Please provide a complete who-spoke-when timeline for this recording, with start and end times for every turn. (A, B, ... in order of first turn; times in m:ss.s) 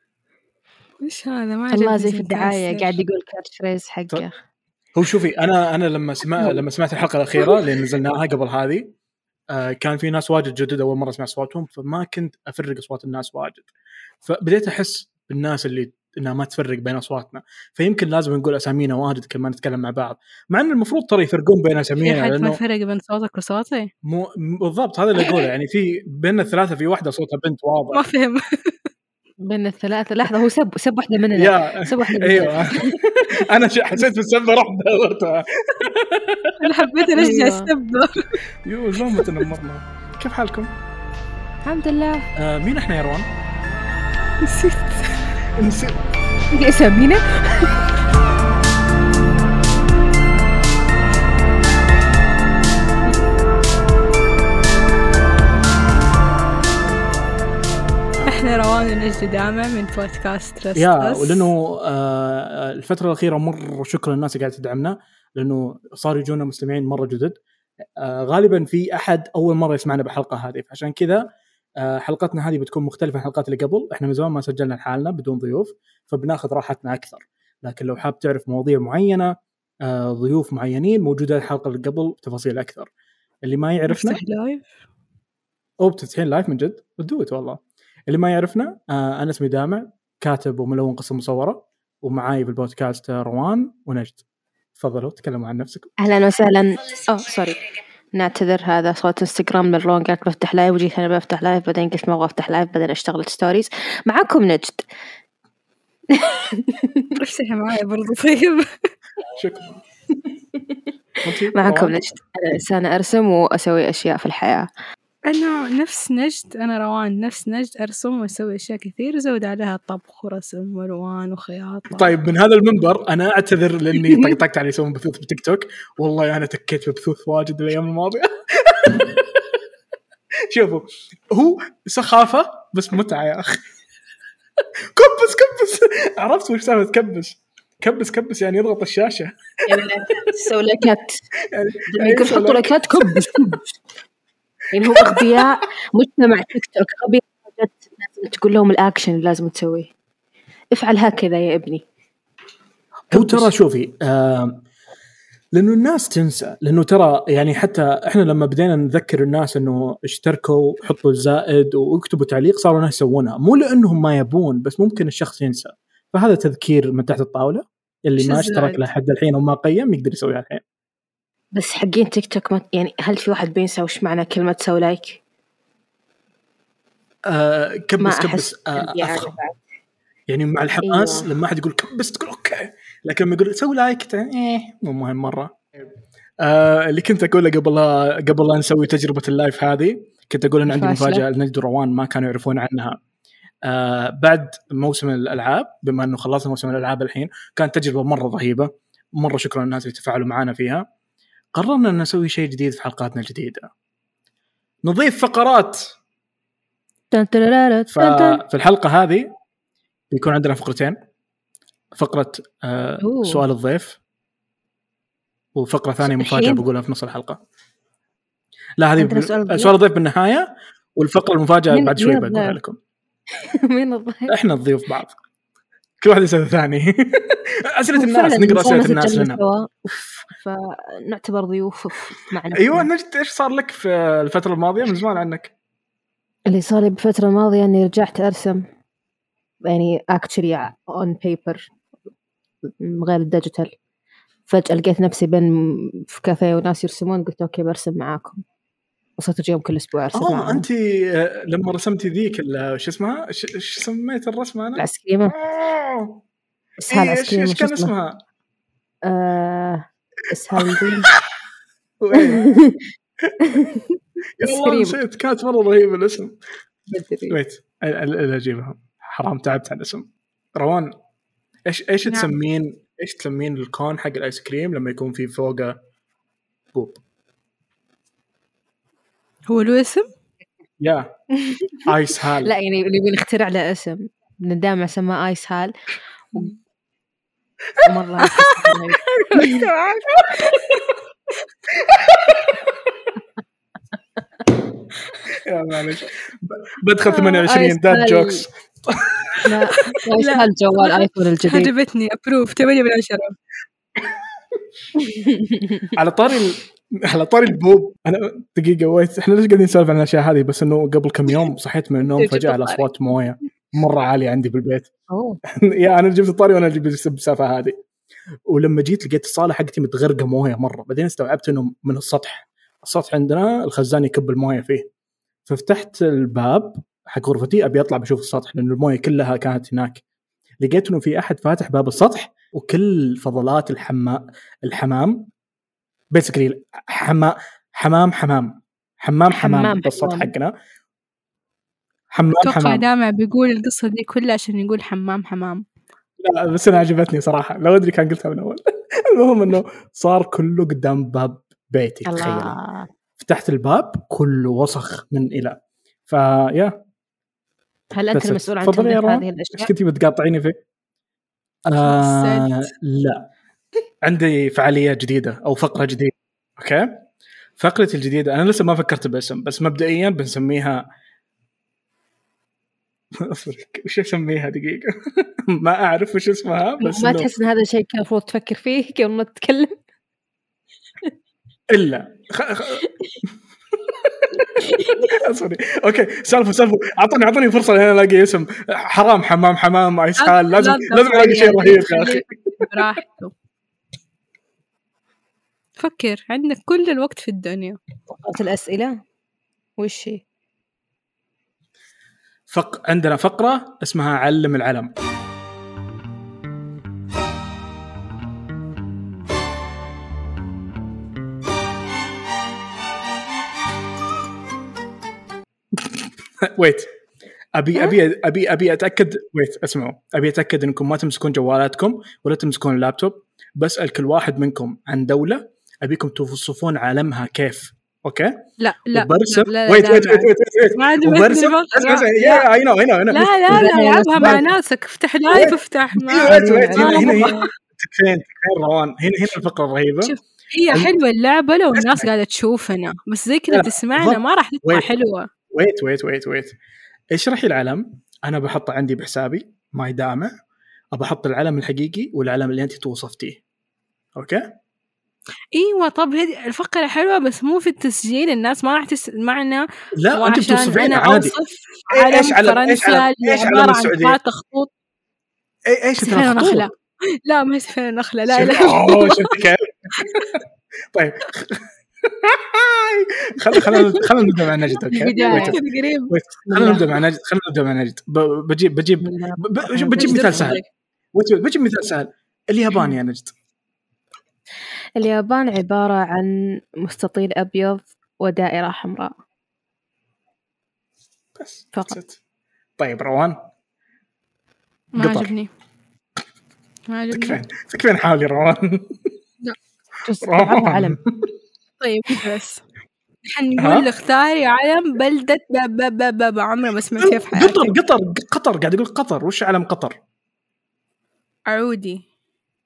0:01.0-0:03.0 A
0:01.7-0:04.4 B
0:04.9-0:08.9 C
0:09.5-0:13.7 C
0:14.2-0:22.6 C
0:22.0-0:23.9 A
0:24.0-0:28.0 C
0:27.9-0:28.7 A
0:29.4-0:33.0 B
0:31.3-0:36.8 C
0:36.6-0:38.4 A
0:37.1-0:37.7 B
0:38.6-0:40.7 C
0:41.6-0:42.3 B
0:42.4-0:43.3 C
0:44.4-0:45.2 A
0:45.6-0:46.0 C
0:46.5-0:47.9 B
0:58.2-1:01.5 A
1:00.7-1:07.4 C
1:08.0-1:11.3 C
1:11.8-1:22.9 C
1:23.4-1:24.2 C
1:23.9-1:24.7 A
1:25.8-1:34.2 C
1:34.8-1:35.9 C
1:36.0-1:44.9 B
1:46.1-1:47.2 B
1:47.2-1:48.7 A
1:49.3-1:49.8 C
1:51.2-1:52.0 C
1:51.3-1:54.7 B
1:55.2-2:02.1 A
2:01.9-2:09.3 C
2:10.5-2:13.6 C
2:14.9-2:20.3 C
2:19.6-2:21.2 B
2:21.5-2:23.3 C
2:21.9-2:23.8 B
2:24.7-2:29.9 B
2:24.8-2:25.4 C
2:30.7-2:31.8 B
2:33.1-2:34.6 C
2:33.1-2:33.5 B
2:35.5-2:50.6 C
2:48.2-2:48.8 A
2:51.5-2:55.2 B
2:57.3-2:59.4 C
2:58.0-2:59.6 B
3:00.3-3:05.6 C
3:00.8-3:01.3 B
3:06.4-3:13.0 C
3:10.7-3:11.2 B
3:13.6-3:20.8 C
3:21.5-3:23.7 C
3:24.8-3:25.9 C
3:27.1-3:28.4 B
3:27.9-3:29.3 C
3:30.1-3:31.0 C
3:31.9-3:34.0 C
3:33.0-3:33.4 B
3:35.6-3:37.4 C
3:36.0-3:36.6 B
3:38.8-3:42.8 C
3:39.0-3:39.7 B
3:41.7-3:42.6 B
3:43.4-3:44.4 B
3:44.3-3:45.2 C
3:46.0-3:49.4 C
3:47.9-3:49.7 B
3:50.3-3:52.9 B
3:52.5-3:55.5 C
3:56.5-3:58.6 B
3:59.6-4:01.7 B
4:02.6-4:03.7 B
4:04.5-4:08.4 B
4:09.2-4:10.6 B
4:10.1-4:16.2 C
4:14.8-4:15.3 B
4:16.8-4:17.9 B
4:16.9-4:18.2 C
4:19.0-4:21.1 B
4:20.5-4:21.2 C
4:22.0-4:22.5 C
4:22.1-4:22.8 B
4:23.2-4:23.8 C
4:23.4-4:23.8 B
4:24.4-4:26.3 C
4:24.4-4:25.0 B
4:26.9-4:27.4 B
4:27.3-4:30.9 C
4:31.7-4:35.8 C
4:36.7-4:37.0 C
4:39.5-4:40.1 A
4:40.8-4:41.1 C
4:41.3-4:45.7 B
4:41.8-4:42.5 C
4:47.8-4:49.7 B
4:48.2-4:50.9 A
4:51.7-4:53.1 C
4:55.3-4:59.5 C
4:57.0-4:58.4 B
4:59.4-5:01.7 B
4:59.8-5:03.3 A
5:05.0-5:05.9 B
5:05.9-5:14.9 C
5:12.2-5:12.8 A
5:15.1-5:15.4 B
5:15.5-5:17.8 C
5:18.5-5:24.9 C
5:25.4-5:30.0 C
5:30.6-5:35.3 C
5:36.1-5:40.5 C
5:39.3-5:40.3 B
5:42.1-5:42.8 C
5:42.4-5:45.6 A
5:46.2-5:52.6 C
5:52.0-5:52.9 B
5:53.2-5:56.8 C
5:57.9-5:59.7 B
5:58.1-6:00.6 C
6:01.7-6:03.3 C
6:01.8-6:02.7 A
6:04.0-6:07.0 C
6:07.6-6:10.8 C
6:13.1-6:17.3 C
6:16.8-6:19.8 B
6:21.7-6:22.9 C
6:23.9-6:32.7 C
6:24.6-6:25.1 B
6:30.2-6:33.3 A
6:35.8-6:37.8 A
6:38.1-6:39.0 B
6:39.8-6:40.2 B
6:42.5-6:44.9 C
6:55.8-6:56.9 C
6:57.5-7:14.4 C
7:08.6-7:12.5 A
7:13.1-7:17.5 A
7:13.5-7:14.4 B
7:15.3-7:20.1 C
7:16.2-7:17.4 B
7:20.0-7:25.3 A
7:21.7-7:22.1 C
7:23.5-7:24.9 C
7:25.5-7:26.6 C
7:27.1-7:30.3 C
7:30.9-7:33.4 C
7:34.2-7:34.5 C
7:35.5-7:44.7 A
7:40.0-7:41.4 C
7:41.9-7:44.2 C
7:45.7-7:46.7 C
7:46.0-7:49.4 A
7:48.3-7:50.4 C
7:50.0-7:50.3 A
7:50.9-8:00.6 C
7:53.5-7:54.0 A
7:54.9-7:55.6 B
7:55.1-7:56.1 A
7:56.4-7:57.0 B
7:59.0-8:00.5 B
8:00.0-8:00.6 A
8:01.1-8:03.3 C
8:05.0-8:09.1 B
8:11.4-8:12.2 C
8:12.8-8:13.5 C
8:14.9-8:15.5 A
8:15.0-8:15.3 C
8:16.9-8:17.4 A
8:17.1-8:19.1 C
8:20.0-8:21.0 B
8:20.2-8:21.3 C
8:21.8-8:22.6 A
8:23.2-8:27.7 A
8:23.6-8:23.9 C
8:27.0-8:30.0 C
8:31.5-8:32.0 A